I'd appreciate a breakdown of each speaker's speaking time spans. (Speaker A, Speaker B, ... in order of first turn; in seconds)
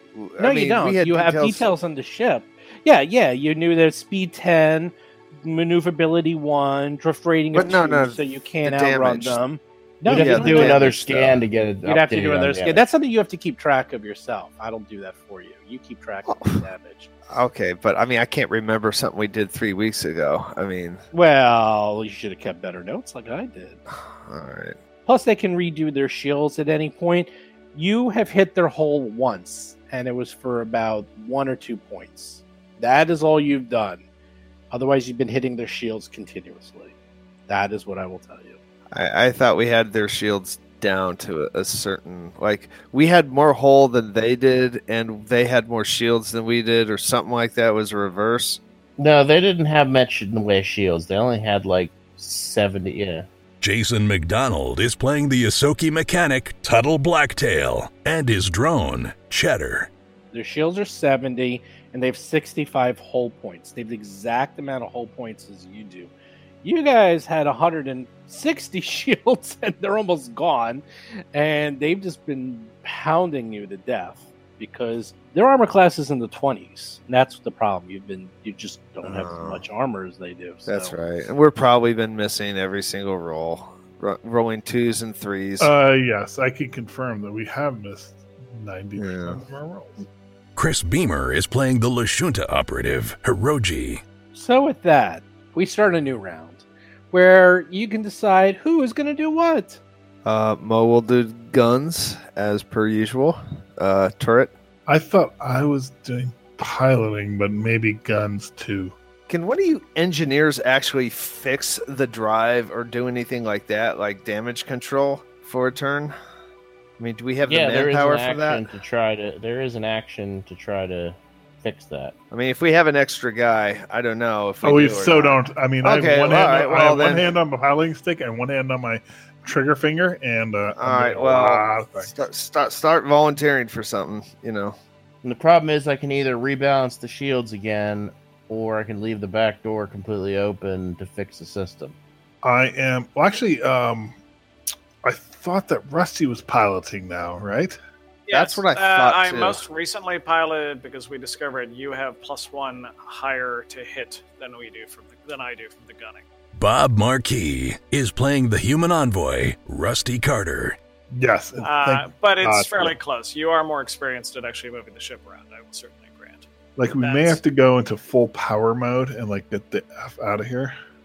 Speaker A: 0.1-1.7, 7.5-9.4, 10.1-11.4, 16.3-16.7, 17.3-21.0, 23.9-24.8, 38.9-48.6, 79.0-79.6, 80.7-85.7, 89.0-89.4, 100.2-104.5, 109.3-116.2, 117.0-118.7, 122.3-127.3, 130.8-134.8, 148.3-149.6
Speaker B: 0.4-10.8, 11.8-17.1, 21.1-23.8, 25.1-34.0, 34.7-36.9, 37.5-38.6, 60.3-66.1, 66.6-80.9, 94.3-99.8
Speaker C: 10.1-12.8, 49.0-53.3, 117.5-122.2, 135.2-142.0
Speaker D: 53.6-59.9, 90.6-94.0, 156.6-160.8
Speaker E: 85.6-90.0, 104.9-108.9, 124.6-132.1, 142.4-144.2, 145.0-147.8, 161.1-162.9, 166.8-170.7
Speaker F: 148.3-156.2, 161.6-166.5, 167.0-167.4